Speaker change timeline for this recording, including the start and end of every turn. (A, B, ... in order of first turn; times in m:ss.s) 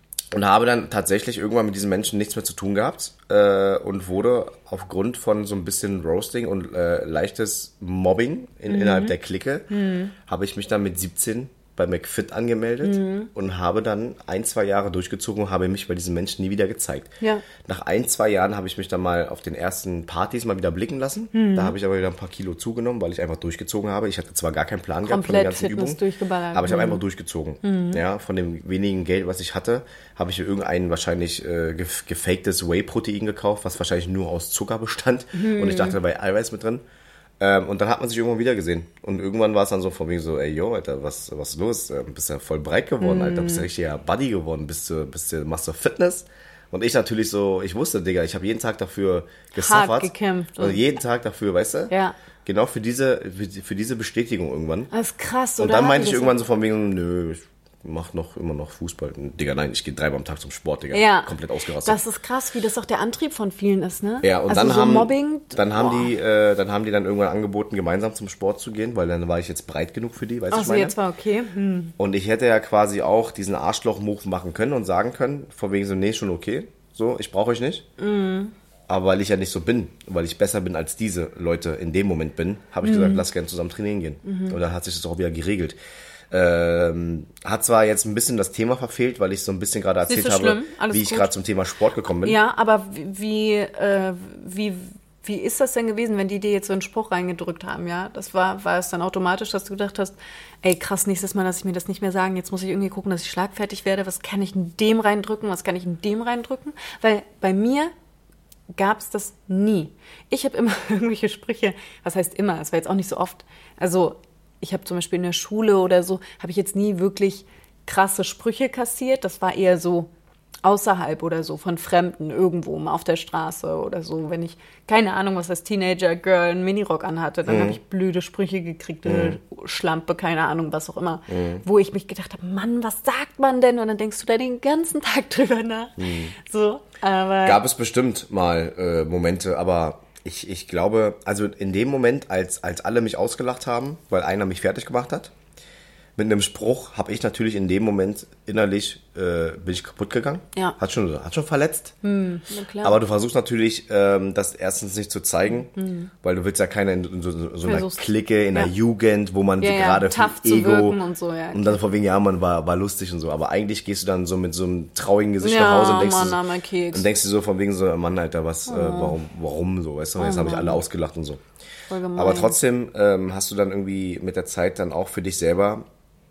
0:00.3-0:09.7 A
0:08.7-0:09.1 B
0:09.7-0:10.1 B
0:10.2-0:26.0 A
0:12.8-0:13.3 B
0:17.2-0:17.4 B
0:21.3-0:21.7 B
0:25.0-0:27.0 B
0:26.5-0:36.8 A
0:27.6-0:28.0 B
0:35.3-0:36.0 B
0:37.4-0:51.9 A
0:43.0-0:43.7 B
0:49.6-0:50.8 B
0:51.9-0:52.2 B
0:52.4-0:54.9 A
0:54.9-0:56.4 B
0:55.6-1:02.0 A
1:00.9-1:06.1 B
1:04.2-1:10.9 A
1:10.5-1:11.9 B
1:12.0-1:17.8 A
1:18.0-1:18.5 B
1:18.9-1:25.8 A
1:22.8-1:23.2 B
1:24.2-1:24.6 B
1:26.3-1:32.4 A
1:30.0-1:31.3 B
1:32.2-1:47.9 B
1:48.7-2:00.1 B
2:00.6-2:17.6 B
2:07.5-2:07.8 A
2:09.0-2:09.4 A
2:11.3-2:11.6 A
2:16.0-2:16.3 A
2:17.4-2:25.3 A
2:26.2-2:31.9 A
2:32.0-2:33.0 B
2:32.8-2:35.7 A
2:35.7-2:36.1 B
2:36.2-2:41.0 A
2:37.6-2:38.7 B
2:39.6-2:41.8 B
2:41.5-2:46.4 A
2:45.4-2:47.0 B
2:46.9-2:51.4 A
2:48.7-2:49.2 B
2:50.2-2:50.8 B
2:51.9-2:52.6 B
2:52.2-2:55.8 A